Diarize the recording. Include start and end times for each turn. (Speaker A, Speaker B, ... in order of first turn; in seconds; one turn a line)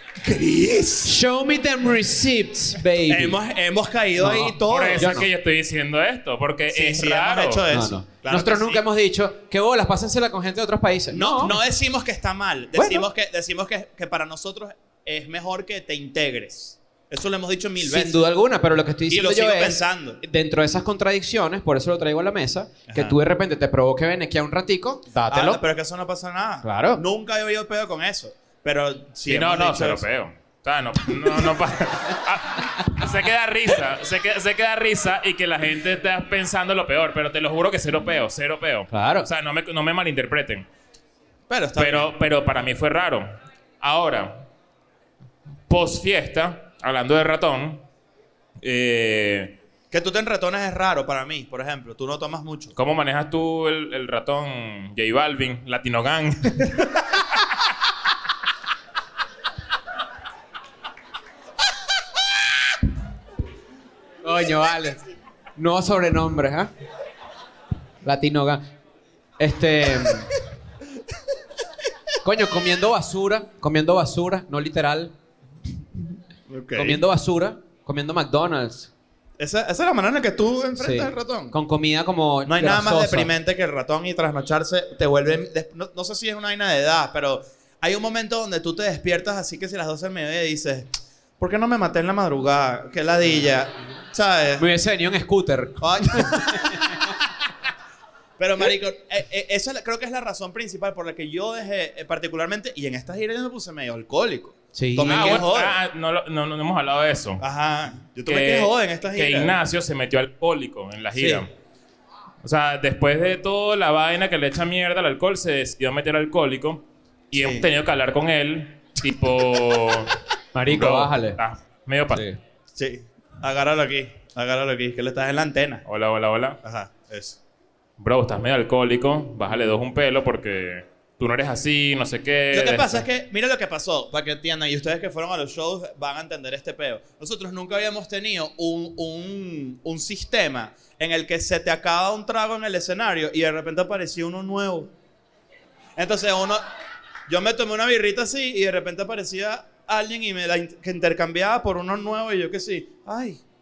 Speaker A: 0.2-1.2
Speaker B: 1.0-3.4
Speaker A: 3.1-5.2
Speaker B: 4.2-5.3
Speaker C: 4.7-7.6
Speaker A: 6.7-8.8
Speaker B: 7.7-11.6
Speaker A: 11.1-18.2
Speaker B: 12.7-13.1
Speaker B: 17.8-25.6
Speaker A: 19.1-20.2
Speaker A: 22.9-23.2
Speaker A: 25.3-30.0
Speaker B: 26.6-27.0
Speaker C: 29.2-40.7
Speaker B: 38.9-39.3
Speaker A: 41.5-42.1
Speaker C: 41.8-44.5
Speaker C: 45.7-47.8
Speaker C: 48.6-49.6
Speaker A: 49.9-52.7
Speaker C: 52.8-56.8
Speaker B: 64.2-65.0
Speaker B: 65.5-66.7
Speaker B: 68.0-68.6
Speaker B: 69.4-70.3
Speaker B: 72.2-75.1
Speaker A: 76.5-77.0
Speaker B: 76.7-78.9
Speaker A: 79.4-81.5
Speaker B: 80.8-83.3
Speaker A: 82.5-94.6
Speaker B: 94.6-96.8
Speaker A: 95.8-96.8
Speaker A: 98.4-105.8
Speaker B: 104.7-105.4
Speaker C: 105.0-107.4
Speaker A: 107.4-109.6
Speaker C: 108.2-111.5
Speaker A: 111.2-111.4
Speaker C: 112.4-120.1
Speaker A: 117.3-117.7
Speaker B: 120.5-121.4
Speaker C: 120.7-122.3
Speaker B: 122.1-122.4
Speaker A: 122.7-125.8
Speaker C: 125.8-126.6
Speaker A: 126.6-127.4
Speaker C: 128.0-133.1
Speaker A: 132.5-144.9
Speaker A: 146.0-146.6
Speaker A: 147.3-153.4